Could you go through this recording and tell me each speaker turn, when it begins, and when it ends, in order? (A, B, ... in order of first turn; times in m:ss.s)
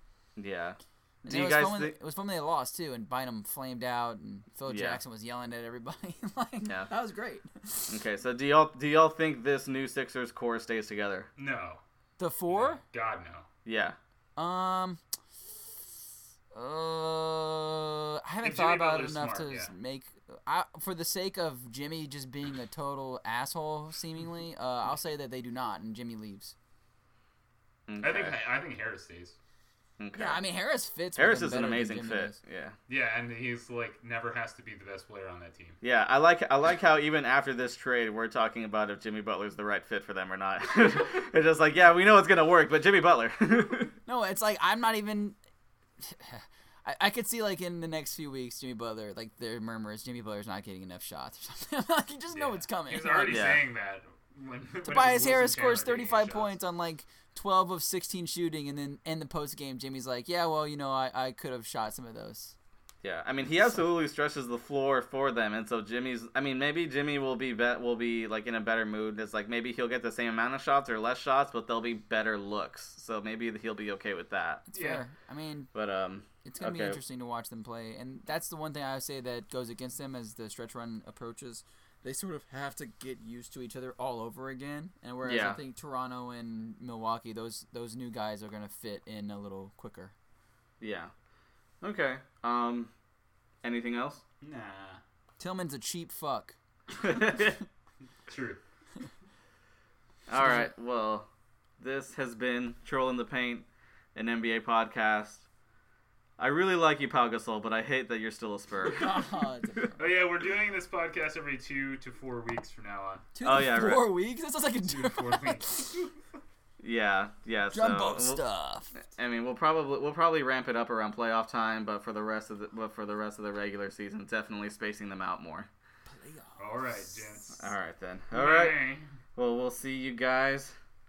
0:00.4-0:01.9 A
0:01.2-0:08.0 B
0:04.7-0:05.0 A
0:06.6-0:06.9 A
0:07.9-0:11.3 A
0:11.4-0:11.8 C
0:12.2-0:12.8 B
0:12.5-0:13.4 C
0:13.6-0:14.0 A
0:14.4-0:15.0 B
0:16.5-0:26.5 B
0:18.4-0:19.7 C
0:27.9-0:28.4 A
0:28.0-0:29.4 C
0:30.0-0:30.4 A
0:30.1-0:32.4 B
0:31.2-0:32.8 A
0:32.9-0:35.8 C
0:35.8-0:43.9 A
0:44.0-0:45.4 B
0:46.0-0:53.6 B
0:52.3-0:56.5 C
0:53.3-0:53.6 A
0:54.8-1:02.5 B
1:03.0-1:14.6 A
1:14.7-1:15.7 B
1:14.7-1:15.0 C
1:15.7-1:17.0 A
1:16.4-1:30.1 B
1:25.2-1:25.6 A
1:30.8-1:31.1 A
1:31.8-1:32.9 A
1:33.6-1:34.2 A
1:34.4-1:35.0 C
1:35.4-1:36.6 B
1:37.0-1:37.6 A
1:38.3-1:38.6 C
1:40.3-1:45.4 A
1:40.4-1:40.6 B
1:46.4-1:49.1 A
1:48.8-1:50.0 B
1:50.0-1:53.3 C
1:53.3-1:56.1 B
1:53.4-1:54.1 A
1:54.8-1:56.1 C
1:56.8-1:58.4 A
1:57.7-1:58.9 B
1:59.0-2:05.7 A
2:06.1-2:06.8 B
2:06.6-2:07.6 C
2:07.6-2:08.8 A
2:08.3-2:09.0 C
2:09.4-2:10.8 A